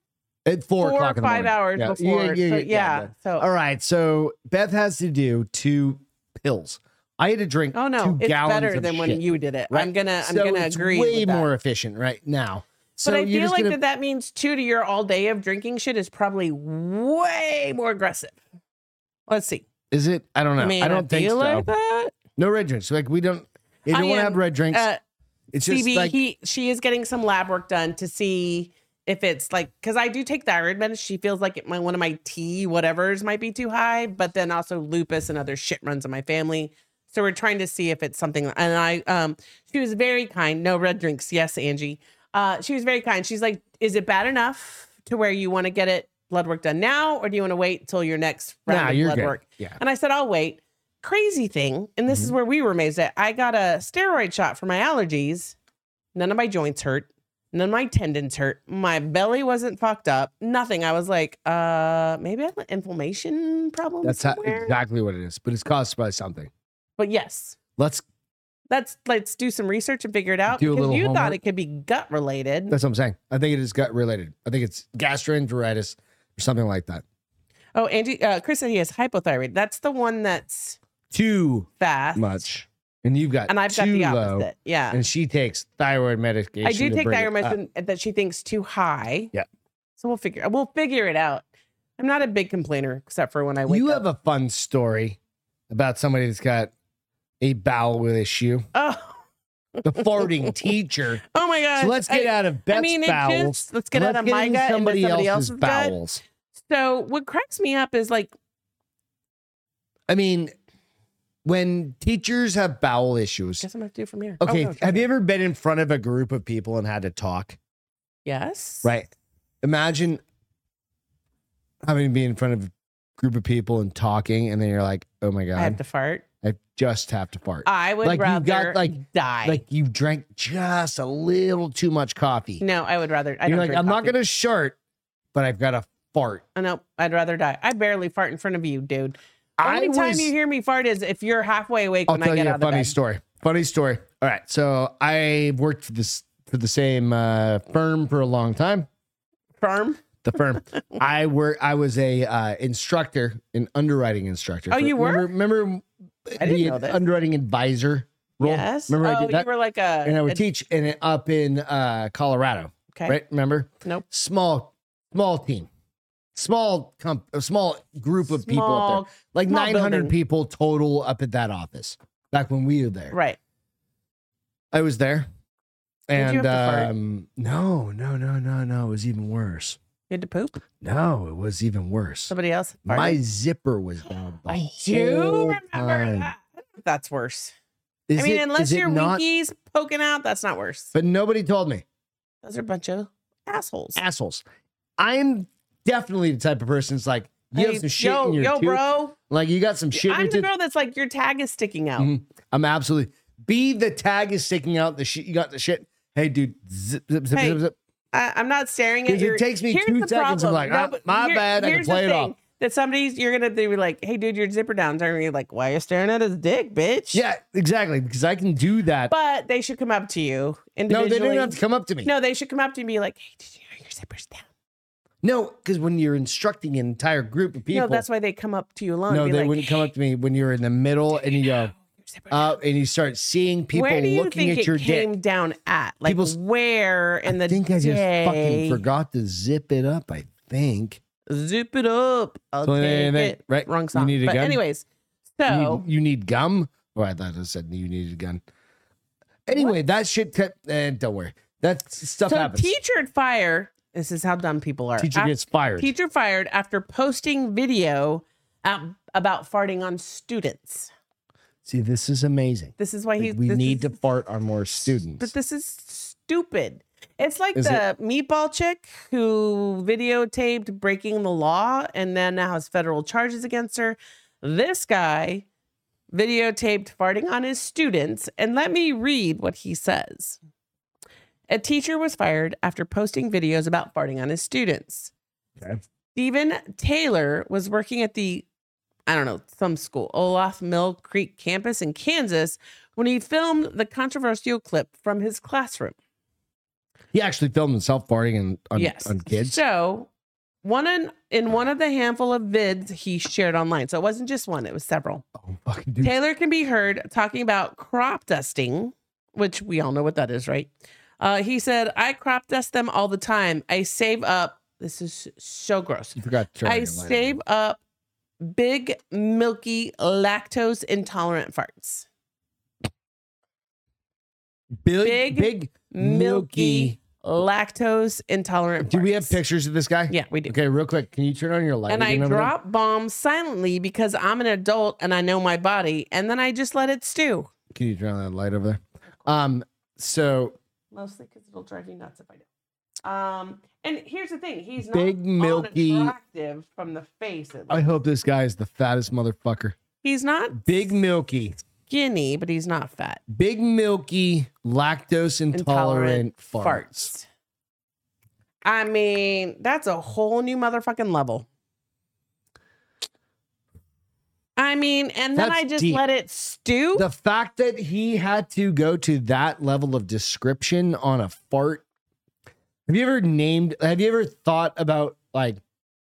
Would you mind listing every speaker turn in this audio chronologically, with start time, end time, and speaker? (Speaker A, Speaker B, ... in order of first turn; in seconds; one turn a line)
Speaker A: 0.4-13.8
Speaker B: 0.8-3.5
Speaker B: 7.7-11.4
Speaker B: 13.0-18.4
Speaker B: 19.3-19.6
Speaker A: 19.9-21.7
Speaker B: 20.6-22.1
Speaker A: 22.4-24.9
Speaker B: 23.9-25.0
Speaker A: 25.5-26.1
Speaker B: 25.6-55.5
Speaker A: 48.7-49.8
Speaker B: 56.1-64.7
Speaker A: 64.0-66.5
Speaker B: 67.0-67.6
Speaker A: 67.8-68.0
Speaker B: 68.7-72.7
Speaker A: 70.5-71.4
Speaker A: 72.7-77.0
Speaker B: 77.7-80.8
Speaker A: 81.1-87.6
Speaker B: 81.8-82.4
Speaker B: 83.5-85.0
Speaker B: 86.6-89.3
Speaker B: 90.0-91.4
Speaker B: 92.0-94.0
Speaker A: 93.7-95.2
Speaker A: 95.7-96.7
Speaker A: 97.4-98.7
Speaker B: 98.7-99.2
Speaker B: 99.8-100.7
Speaker A: 99.8-101.2
Speaker B: 101.3-106.0
Speaker A: 101.8-106.2
Speaker B: 106.5-108.3
Speaker A: 110.1-110.5
Speaker A: 111.4-113.7
Speaker B: 113.6-115.1
Speaker A: 114.4-117.6
Speaker B: 118.2-118.9
Speaker A: 118.8-119.1
Speaker A: 119.6-120.2
Speaker A: 121.8-125.8
Speaker B: 125.5-126.2
Speaker A: 126.4-132.6
Speaker B: 127.6-129.6
Speaker B: 132.6-134.2
Speaker A: 133.4-134.8
Speaker A: 135.3-136.4
Speaker B: 136.5-142.9
Speaker A: 139.6-140.3
Speaker A: 142.1-148.9
Speaker B: 149.6-151.0
Speaker A: 150.2-159.5
Speaker B: 154.7-155.3
Speaker B: 156.4-157.0
Speaker B: 158.4-160.4
Speaker A: 160.0-165.7
Speaker A: 166.3-173.1
Speaker B: 168.3-170.1
Speaker B: 173.1-173.4
Speaker A: 174.7-175.3
Speaker A: 176.1-179.8
Speaker B: 176.1-176.9
Speaker B: 180.1-180.6
Speaker A: 180.8-182.3
Speaker B: 182.3-183.2
Speaker A: 182.8-186.3
Speaker B: 184.5-187.5
Speaker A: 188.1-189.2
Speaker B: 188.2-190.9
Speaker A: 190.9-191.8
Speaker B: 192.4-194.0
Speaker A: 193.9-194.4
Speaker A: 195.0-200.5
Speaker B: 197.5-199.1
Speaker B: 199.9-202.1
Speaker A: 202.0-207.7
Speaker B: 207.3-207.6
Speaker B: 208.1-217.2
Speaker A: 209.1-212.3
Speaker A: 217.1-219.1
Speaker B: 219.1-224.5
Speaker A: 220.9-222.1
Speaker A: 225.2-228.0
Speaker B: 227.7-229.9
Speaker A: 229.1-231.7
Speaker B: 231.2-232.6
Speaker A: 232.3-235.1
Speaker B: 233.7-238.8
Speaker A: 236.1-236.3
Speaker A: 237.3-241.0
Speaker B: 241.3-244.8
Speaker A: 242.6-244.6
Speaker B: 245.4-245.8
Speaker A: 245.5-248.4
Speaker A: 249.5-252.7
Speaker B: 252.3-260.9
Speaker A: 255.0-255.9
Speaker A: 261.6-265.3
Speaker B: 262.8-263.9
Speaker B: 265.1-275.4
Speaker A: 267.5-267.8
Speaker B: 276.1-280.4
Speaker B: 281.5-285.1
Speaker B: 286.1-288.4
Speaker B: 289.1-295.9
Speaker A: 297.1-299.6
Speaker B: 298.8-300.1
Speaker B: 300.6-305.2
Speaker A: 305.4-306.1
Speaker B: 306.0-317.8
Speaker A: 316.2-317.4
Speaker B: 318.4-322.1
Speaker A: 324.8-327.0
Speaker B: 325.0-329.4
Speaker A: 328.8-332.5
Speaker B: 330.1-330.5
Speaker B: 331.9-337.5
Speaker A: 337.7-340.6
Speaker B: 340.9-342.5
Speaker B: 343.0-347.9
Speaker A: 344.8-346.1
Speaker A: 347.7-349.8
Speaker B: 350.0-350.9
Speaker A: 350.5-351.6
Speaker B: 351.9-353.2
Speaker A: 353.3-357.1
Speaker B: 355.5-357.2
Speaker B: 358.6-361.5
Speaker B: 364.6-367.0
Speaker A: 365.4-366.0
Speaker A: 366.9-371.8
Speaker A: 372.9-375.6